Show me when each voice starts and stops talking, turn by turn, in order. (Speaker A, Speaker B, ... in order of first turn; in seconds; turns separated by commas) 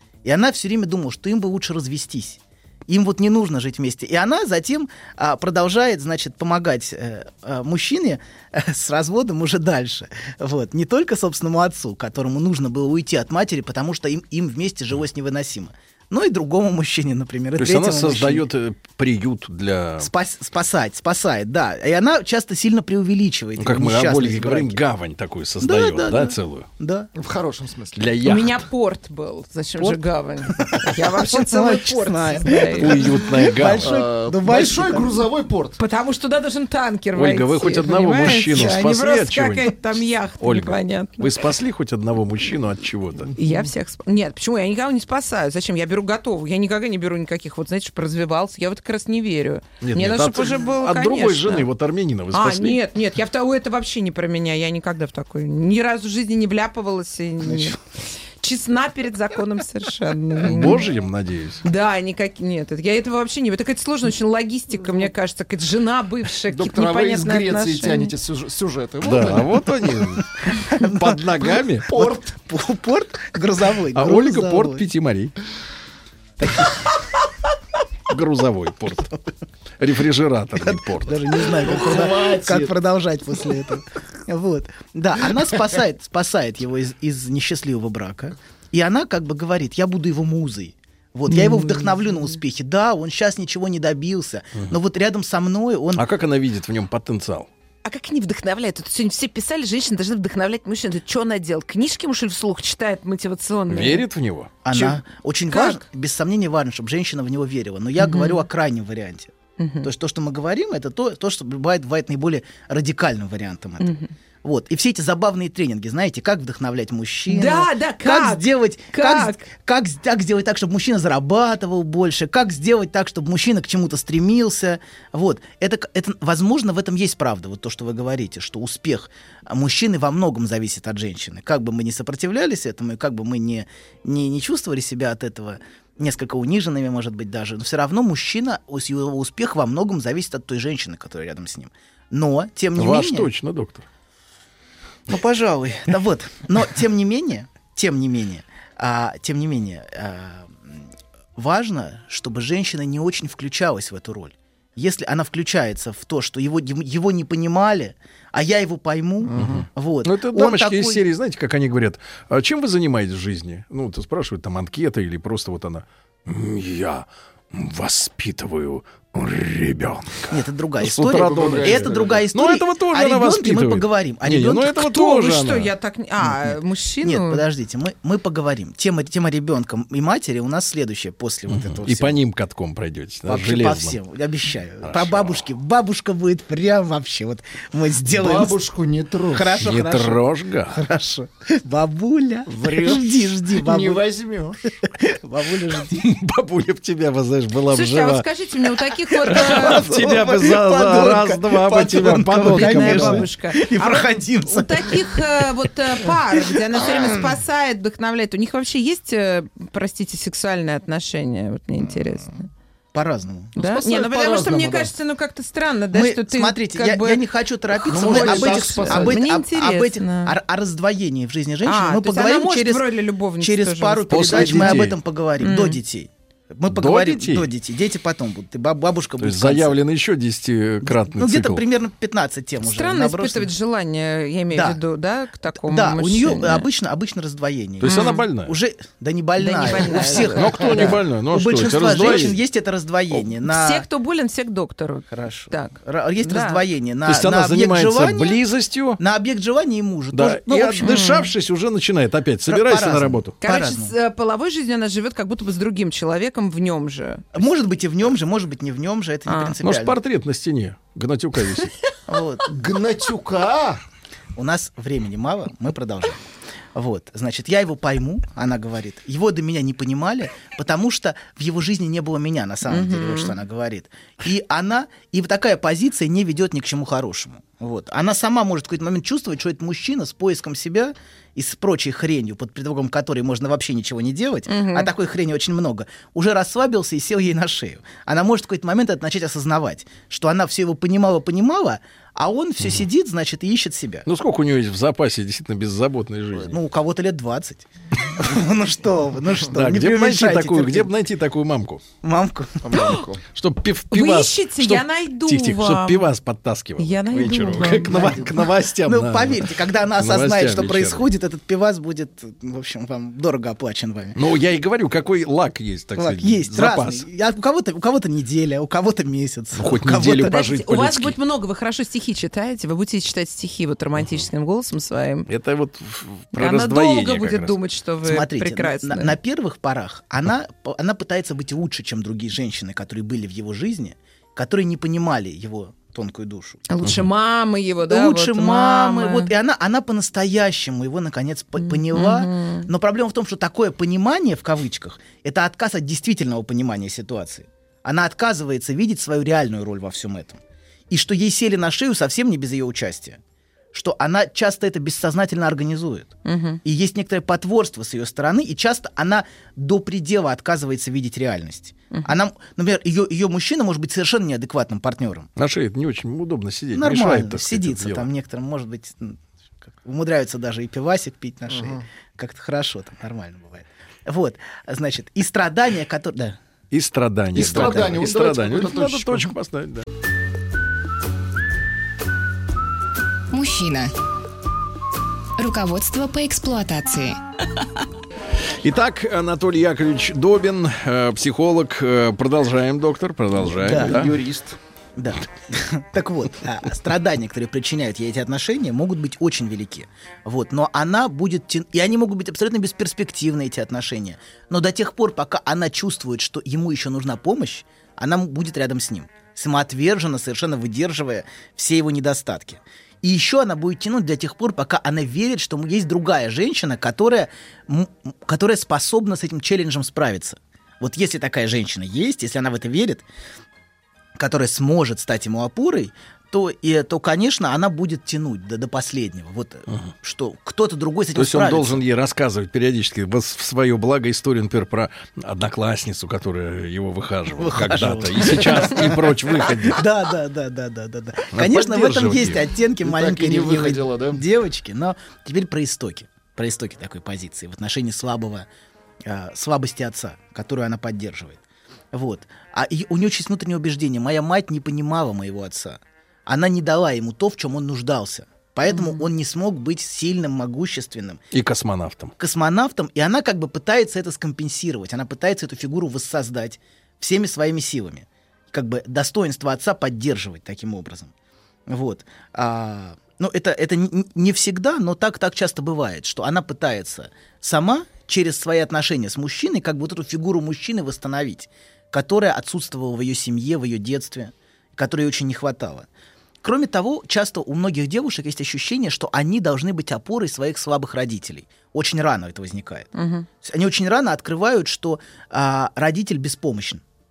Speaker A: 0.2-18.5, Speaker B: 17.6-20.1, Speaker A: 20.0-24.8, Speaker B: 23.6-26.7, Speaker A: 25.6-27.1, Speaker C: 27.1-28.1, Speaker B: 27.9-28.6, Speaker D: 28.2-33.0, Speaker A: 30.5-35.2, Speaker B: 32.8-33.9, Speaker C: 33.8-35.8, Speaker D: 35.8-41.3, Speaker B: 37.1-39.8, Speaker B: 40.4-43.3, Speaker D: 43.4-51.7, Speaker B: 49.8-52.8, Speaker D: 52.3-57.8, Speaker A: 57.4-57.8, Speaker D: 58.4-60.9, Speaker B: 60.4-61.6, Speaker D: 61.6-68.1, Speaker C: 66.5-69.6, Speaker B: 69.0-71.9, Speaker A: 70.5-71.2, Speaker C: 71.9-72.3, Speaker A: 71.9-74.8, Speaker B: 73.9-75.3, Speaker A: 76.4-76.7, Speaker B: 78.1-79.1, Speaker B: 79.8-81.3, Speaker A: 80.5-96.0, Speaker C: 81.6-82.7, Speaker D: 91.3-92.0, Speaker B: 95.9-97.5, Speaker D: 97.8-104.0, Speaker B: 103.7-104.5, Speaker A: 104.6-143.3, Speaker D: 104.7-105.8, Speaker D: 108.0-108.4, Speaker D: 109.6-109.9, Speaker D: 113.8-114.1, Speaker D: 117.3-119.5, Speaker B: 142.8-143.8, Speaker A: 145.1-161.0, Speaker C: 159.3-159.6, Speaker B: 159.4-175.7, Speaker A: 170.3-174.9, Speaker C: 171.1-172.2, Speaker D: 174.8-177.4, Speaker A: 176.2-182.2, Speaker B: 181.5-184.0, Speaker A: 183.2-188.6, Speaker B: 184.8-185.4, Speaker C: 188.1-189.6, Speaker A: 189.3-194.1, Speaker B: 189.6-190.8, Speaker C: 192.5-194.6, Speaker A: 194.8-196.1, Speaker B: 196.0-198.3, Speaker D: 197.7-199.8, Speaker B: 199.2-203.3, Speaker A: 199.2-205.4, Speaker D: 202.5-212.5, Speaker A: 206.3-207.3, Speaker A: 212.9-213.5, Speaker D: 213.6-217.2, Speaker C: 213.6-214.9, Speaker A: 215.9-229.8, Speaker D: 217.8-220.3, Speaker C: 217.9-219.2, Speaker D: 221.6-224.8, Speaker B: 224.1-225.0, Speaker D: 225.4-225.8, Speaker B: 226.7-227.5, Speaker B: 229.2-231.6, Speaker A: 230.8-233.5, Speaker D: 232.6-236.7, Speaker A: 234.5-234.8, Speaker A: 235.5-243.8, Speaker B: 237.8-238.5, Speaker D: 237.8-238.2, Speaker D: 239.4-241.0, Speaker B: 240.1-242.4, Speaker D: 243.4-246.6, Speaker A: 245.1-248.4, Speaker B: 247.0-249.0, Speaker A: 249.0-251.0, Speaker B: 250.1-253.3, Speaker D: 250.8-251.3, Speaker A: 252.5-253.9, Speaker D: 253.4-257.2, Speaker A: 257.3-260.0, Speaker D: 259.3-259.5, Speaker B: 259.6-261.7, Speaker A: 262.1-262.5, Speaker C: 262.4-263.8, Speaker A: 264.3-266.2, Speaker A: 266.7-294.1, Speaker D: 272.7-273.3, Speaker D: 284.5-284.9, Speaker B: 294.1-296.5, Speaker A: 296.4-300.9, Speaker B: 299.5-301.8, Speaker A: 302.0-302.8, Speaker C: 302.6-303.2, Speaker D: 302.8-303.0, Speaker B: 303.3-311.1, Speaker D: 303.9-306.0, Speaker D: 306.8-308.2, Speaker A: 307.8-314.2, Speaker B: 314.1-317.0, Speaker A: 315.9-320.3, Speaker B: 319.5-321.2, Speaker D: 320.2-325.3, Speaker B: 324.0-324.2, Speaker B: 325.3-327.6, Speaker D: 326.3-329.1, Speaker A: 328.0-336.6, Speaker D: 336.7-339.3, Speaker A: 337.9-353.2, Speaker D: 341.6-342.7, Speaker A: 353.7-356.1, Speaker D: 356.2-356.6, Speaker A: 356.6-365.3, Speaker B: 365.4-368.1, Speaker A: 366.7-376.4, Speaker C: 371.5-371.8, Speaker B: 376.7-379.8, Speaker C: 377.3-379.3, Speaker A: 377.5-377.9, Speaker E: 383.3-383.9, Speaker E: 385.4-387.2, Speaker B: 388.6-394.1, Speaker C: 393.4-394.6, Speaker A: 393.6-394.0, Speaker A: 395.0-423.0, Speaker A: 424.1-431.8, Speaker B: 431.1-439.8, Speaker A: 437.4-448.5, Speaker B: 441.3-442.4, Speaker C: 442.8-444.2, Speaker A: 449.0-451.4, Speaker A: 451.9-461.2, Speaker D: 458.7-459.0, Speaker B: 461.3-462.1, Speaker A: 462.2-471.1, Speaker A: 471.7-485.9, Speaker A: 486.4-492.9, Speaker D: 492.9-493.2, Speaker A: 493.4-496.8